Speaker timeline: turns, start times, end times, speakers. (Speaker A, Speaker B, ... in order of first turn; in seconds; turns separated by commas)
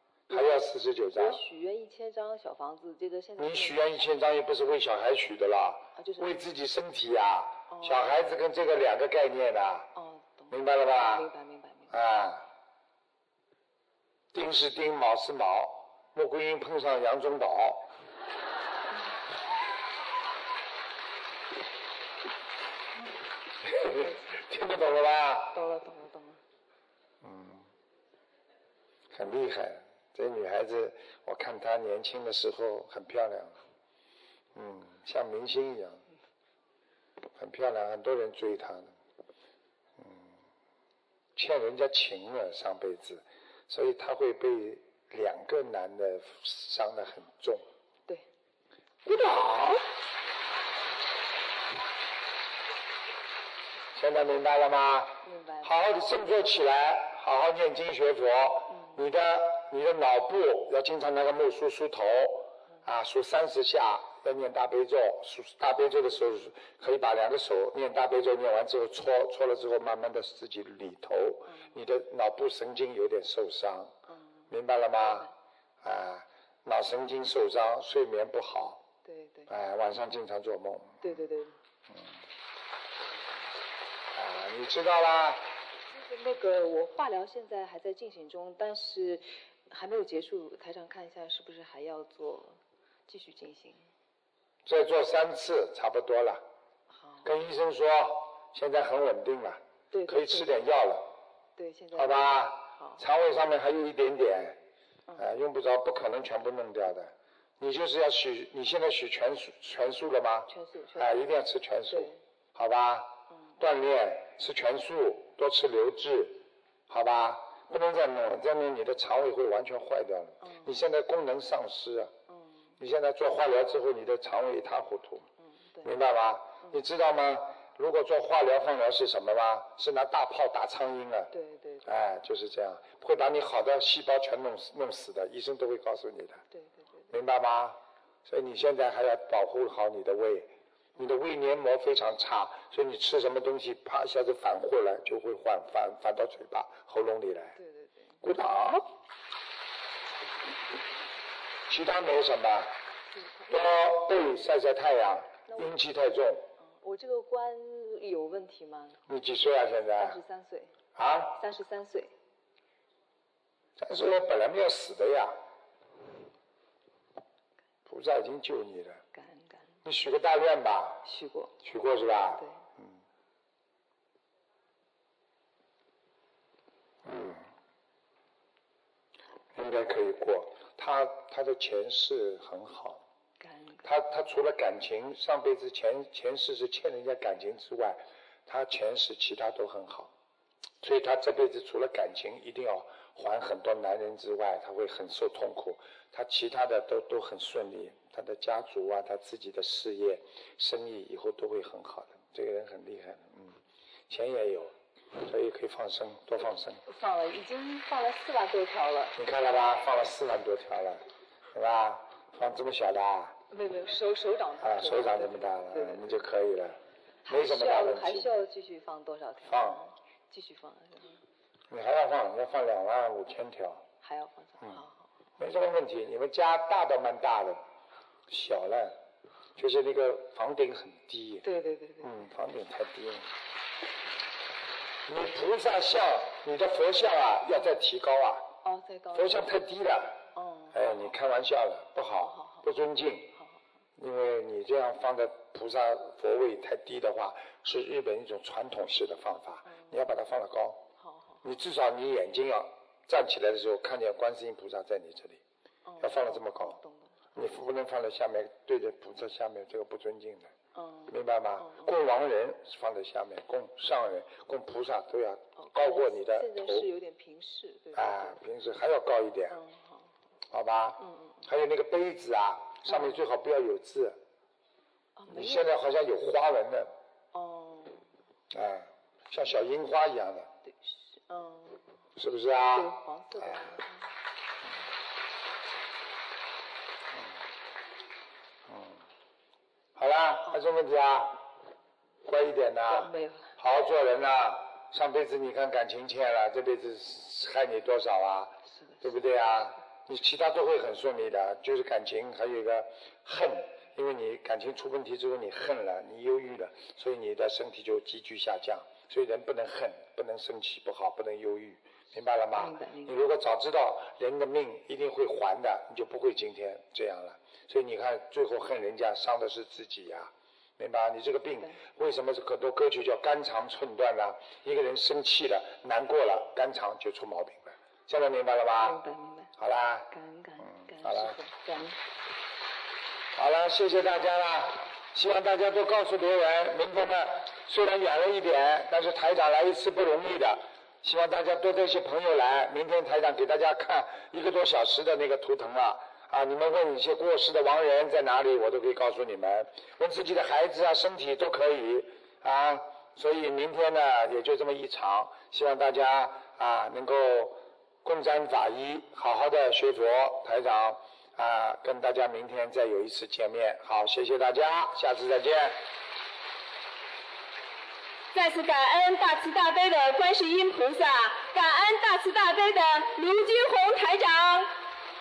Speaker A: 0.3-1.4, Speaker B: 0.3-0.6, Speaker B: 1.1-3.8, Speaker A: 3.4-9.9, Speaker B: 6.0-6.3, Speaker B: 7.7-8.1, Speaker B: 9.9-11.9, Speaker A: 10.5-11.3, Speaker A: 11.9-12.5, Speaker A: 14.3-17.9, Speaker A: 23.6-25.5, Speaker B: 24.0-24.3, Speaker B: 25.5-26.4, Speaker A: 27.2-27.6, Speaker A: 29.1-33.6, Speaker A: 34.5-36.0, Speaker A: 37.3-38.9, Speaker A: 40.0-40.4, Speaker A: 41.4-47.7, Speaker A: 49.0-49.9, Speaker A: 53.9-74.0, Speaker B: 55.2-55.7, Speaker B: 74.1-74.5, Speaker A: 74.5-75.3, Speaker B: 75.0-75.3, Speaker A: 75.8-78.8, Speaker B: 79.0-79.5, Speaker A: 79.5-81.2, Speaker B: 81.0-81.6, Speaker A: 84.1-85.5, Speaker B: 85.9-93.9, Speaker A: 94.6-96.4, Speaker B: 96.9-97.3, Speaker A: 97.2-101.1, Speaker B: 99.9-100.5, Speaker B: 101.5-103.0, Speaker A: 101.9-104.6, Speaker A: 105.2-122.1, Speaker B: 110.5-111.1, Speaker B: 111.9-112.2, Speaker B: 122.3-122.7, Speaker A: 122.8-125.3, Speaker B: 125.6-125.9, Speaker A: 125.8-131.3, Speaker B: 131.3-131.9, Speaker A: 131.8-136.4, Speaker B: 136.5-137.1, Speaker A: 137.1-147.6, Speaker B: 147.6-148.2, Speaker A: 148.2-148.9, Speaker A: 151.7-152.7, Speaker B: 153.2-153.5, Speaker A: 153.5-156.5, Speaker B: 156.6-159.0, Speaker A: 159.1-160.2, Speaker B: 160.0-160.8, Speaker A: 160.9-161.4, Speaker B: 161.3-162.1, Speaker A: 163.8-165.4, Speaker A: 167.8-169.0, Speaker B: 169.1-169.7, Speaker A: 169.8-171.0, Speaker B: 171.0-171.5, Speaker A: 171.6-173.0, Speaker B: 172.4-172.6, Speaker A: 177.0-177.5, Speaker A: 179.5-183.0, Speaker B: 183.4-183.8, Speaker A: 183.8-190.1, Speaker A: 190.8-203.6, Speaker A: 204.1-206.8, Speaker B: 206.8-209.2, Speaker A: 209.2-213.4, Speaker B: 213.5-216.0, Speaker A: 214.6-218.3, Speaker B: 217.2-221.2, Speaker A: 219.5-219.8, Speaker A: 221.7-223.8, Speaker B: 224.0-225.0, Speaker A: 225.4-227.6, Speaker A: 228.3-229.0, Speaker A: 229.6-231.4, Speaker B: 231.4-232.2, Speaker A: 232.0-233.3, Speaker A: 235.1-238.5, Speaker B: 238.6-239.5, Speaker A: 239.1-243.3, Speaker B: 240.3-241.0, Speaker B: 242.2-242.7, Speaker A: 244.0-250.9, Speaker B: 251.0-251.4, Speaker A: 251.4-255.4, Speaker B: 255.8-257.1, Speaker A: 256.0-256.8, Speaker A: 257.3-260.5, Speaker B: 260.7-261.9, Speaker A: 261.1-266.9, Speaker B: 265.6-268.4, Speaker A: 267.9-269.6, Speaker B: 269.5-270.1, Speaker A: 270.5-274.2, Speaker B: 271.0-271.4, Speaker B: 272.9-273.1, Speaker B: 275.2-275.7, Speaker A: 275.3-276.9, Speaker B: 277.3-278.1, Speaker A: 278.5-280.5, Speaker B: 280.6-281.8, Speaker A: 282.1-283.8, Speaker B: 282.7-284.1, Speaker A: 288.7-289.0, Speaker A: 289.9-291.4, Speaker A: 292.2-329.0, Speaker B: 292.9-293.5, Speaker B: 298.8-299.0, Speaker B: 312.5-313.1, Speaker B: 328.8-329.5, Speaker A: 329.6-330.1, Speaker B: 330.1-332.0, Speaker A: 330.6-331.4, Speaker A: 333.3-365.8, Speaker C: 368.3-374.7